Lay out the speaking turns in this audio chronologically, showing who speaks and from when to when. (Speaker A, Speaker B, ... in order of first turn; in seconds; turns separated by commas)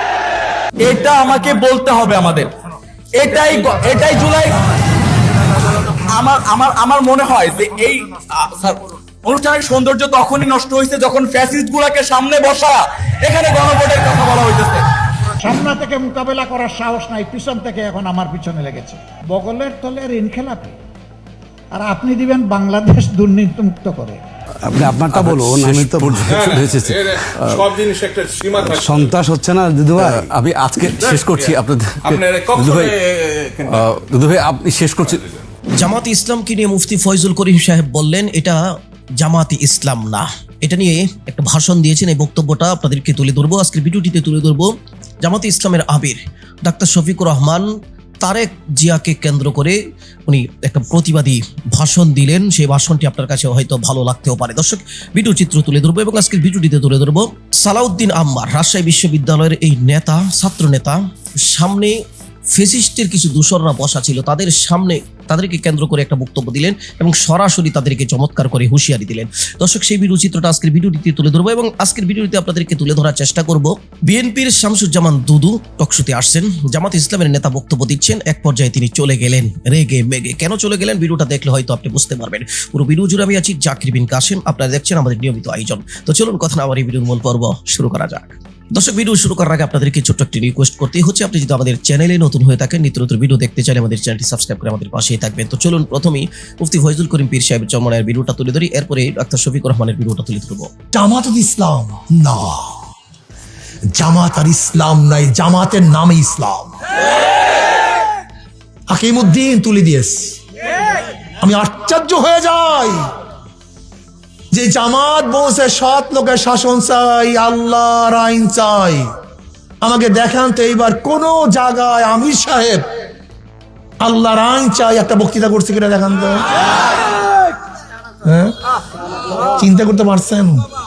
Speaker A: 0.8-2.5, Speaker A: 3.2-4.6, Speaker A: 6.0-14.8, Speaker B: 15.4-20.8, Speaker B: 21.8-24.2, Speaker C: 24.6-26.3, Speaker D: 25.1-27.7, Speaker E: 26.3-29.1, Speaker C: 28.7-30.3, Speaker D: 30.0-32.9, Speaker E: 31.0-33.8, Speaker D: 33.7-35.2, Speaker E: 35.0-35.5, Speaker F: 35.8-38.6, Speaker F: 39.2-44.7, Speaker F: 45.2-47.7, Speaker F: 48.2-49.8, Speaker F: 50.3-62.0, Speaker F: 62.5-100.7, Speaker G: 100.9-102.6, Speaker G: 104.0-106.7, Speaker G: 108.9-110.4, Speaker G: 111.4-113.1, Speaker G: 114.5-119.1, Speaker G: 119.8-122.8, Speaker G: 124.0-126.5, Speaker G: 128.2-128.5, Speaker G: 129.6-130.7